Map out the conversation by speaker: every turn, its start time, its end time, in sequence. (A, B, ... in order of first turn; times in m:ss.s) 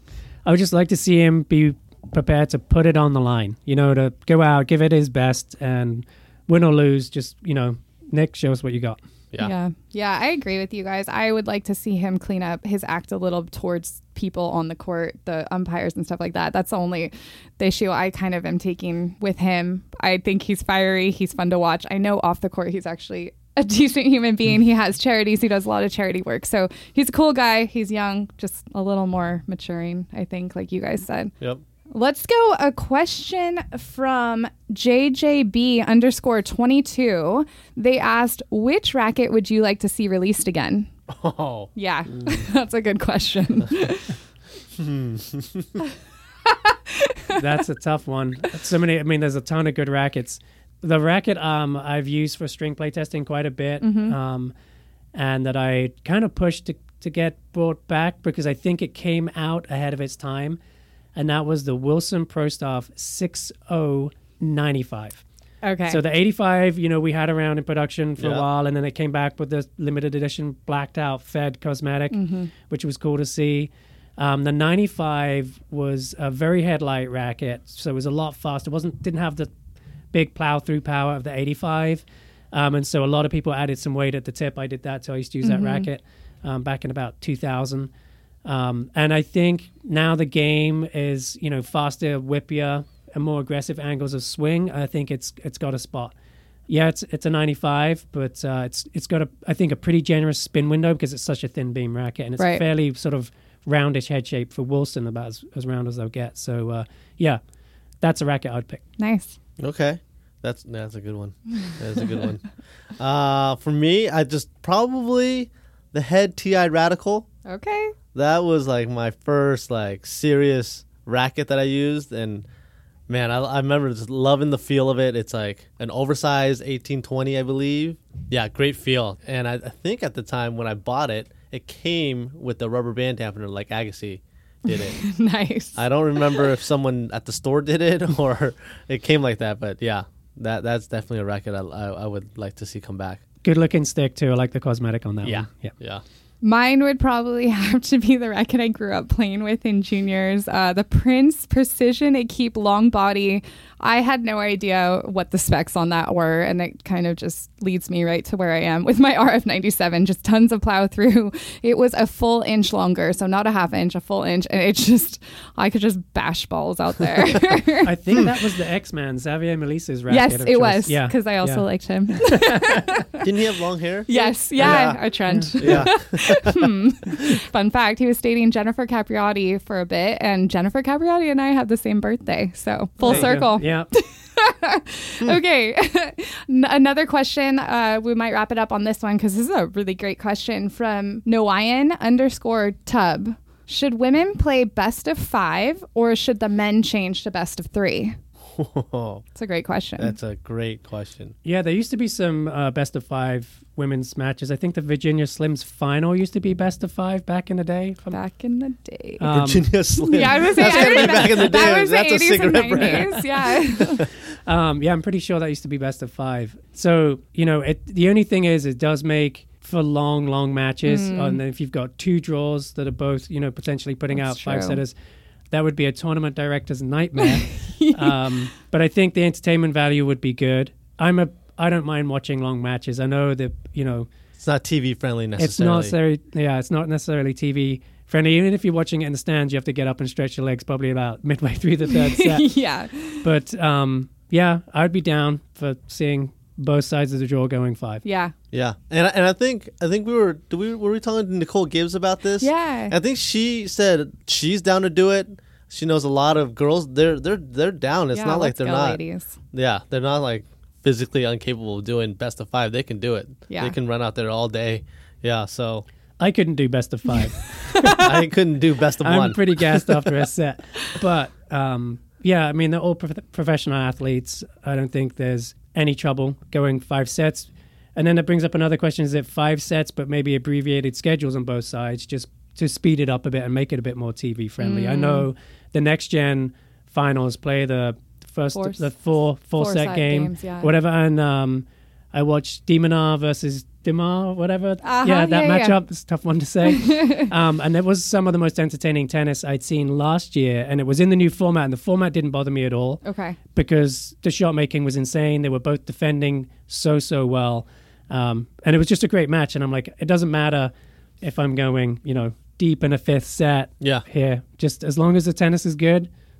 0:00.4-0:09.0 A
0:09.4-0:31.3 B
0:31.9-0:40.9 B
0:41.1-0:42.4 C
0:41.8-0:44.1 B
0:44.8-0:45.8 C
0:46.5-0:47.4 B
0:47.3-0:54.5 A
0:53.8-0:54.2 B
0:55.1-1:00.6 A
1:01.2-1:05.2 A
1:05.6-1:06.0 B
1:05.9-1:19.5 A
1:08.2-1:08.4 C
1:12.1-1:12.5 B
1:20.1-1:27.9 A
1:25.4-1:25.9 B
1:28.4-1:36.1 A
1:36.7-1:47.4 A
1:42.4-1:42.6 B
1:48.0-1:48.8 A
1:49.0-1:49.4 B
1:49.6-1:52.4 C
1:53.0-1:57.3 C
1:57.4-1:57.9 B
1:58.1-2:02.4 C
2:03.1-2:15.0 C
2:14.7-2:16.5 B
2:15.7-2:23.2 C
2:23.4-2:25.7 A
2:25.2-2:26.0 C
2:26.4-2:48.2 B
2:47.8-2:53.0 A
2:50.1-2:53.3 B
2:53.2-2:55.0 C
2:54.1-3:18.2 B
2:55.3-2:55.9 A
2:55.6-2:56.7 C
3:03.0-3:03.9 A
3:03.0-3:03.3 C
3:18.5-3:19.2 C
3:19.3-3:20.1 B
3:20.0-3:21.3 C
3:21.4-3:28.2 A
3:28.1-3:29.3 B
3:29.2-3:29.7 A
3:29.3-3:33.2 C
3:30.0-3:34.0 B
3:30.6-3:31.2 A
3:32.8-3:33.2 A
3:34.4-3:44.9 A
3:40.8-3:41.4 B
3:44.1-3:44.8 B
3:45.5-3:54.1 A
3:47.2-3:48.3 B
3:54.4-3:55.9 C
3:55.4-4:02.5 A
4:01.9-4:03.2 B
4:03.2-4:08.0 A
4:08.0-4:08.3 B
4:08.5-4:19.0 C
4:12.4-4:12.9 B
4:18.1-4:19.4 B
4:19.5-4:25.8 C
4:23.5-4:23.7 B
4:26.2-4:28.1 A
4:27.8-4:28.1 B
4:28.0-4:30.1 C
4:29.0-5:03.0 A
4:44.6-4:45.3 B
4:48.5-4:48.9 B
4:49.5-4:50.7 B
4:54.8-4:55.8 B
4:56.6-4:57.3 B
5:03.0-5:03.4 B
5:03.5-5:16.1 A